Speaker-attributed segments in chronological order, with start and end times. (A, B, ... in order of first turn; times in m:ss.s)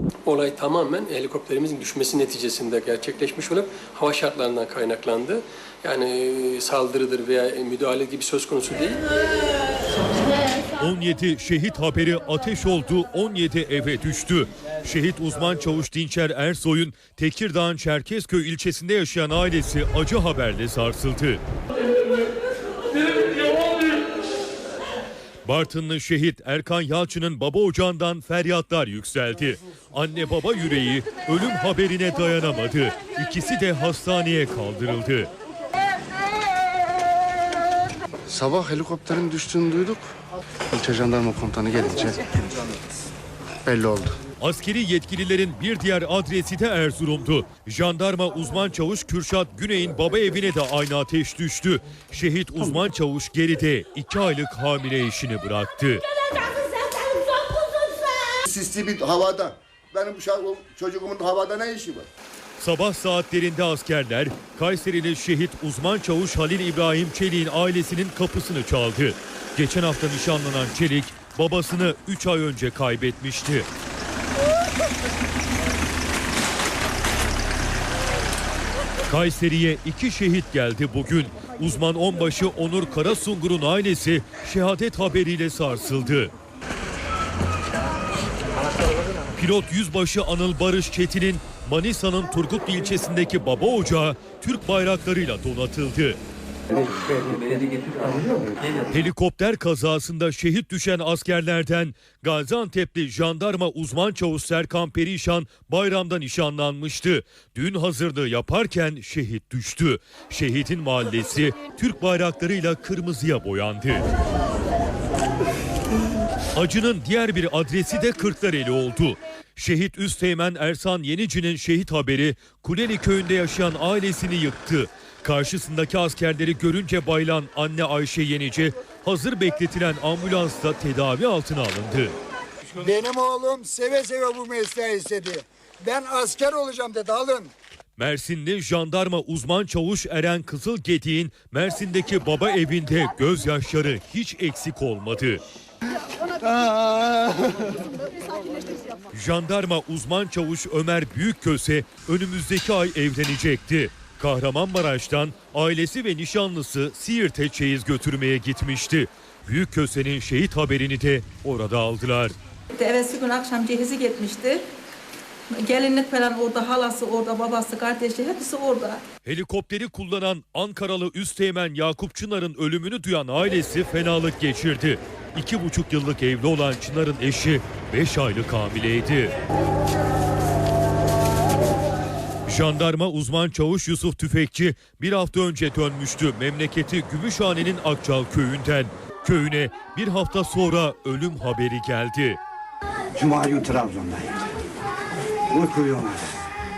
0:00.2-0:09.1 A
0:10.8-0:21.4 B
0:25.4-0:35.3 B
0:38.3-0:40.1 C
0:40.7-0:42.2 C
0:43.6-0:44.2 C
0:44.4-0:56.0 B
0:58.5-1:02.1 D
1:02.6-1:13.7 B
1:19.1-1:26.3 B
1:29.4-1:36.2 B
1:36.8-1:38.5 E
1:38.9-1:54.0 B
1:56.6-2:12.2 B
2:12.8-2:17.5 F
2:18.0-2:25.4 B
2:29.1-2:42.4 B
2:42.8-2:44.6 G
2:45.6-2:49.0 G
2:49.2-2:59.3 B
3:02.5-3:12.4 B
3:13.2-3:14.6 E
3:15.5-3:16.4 E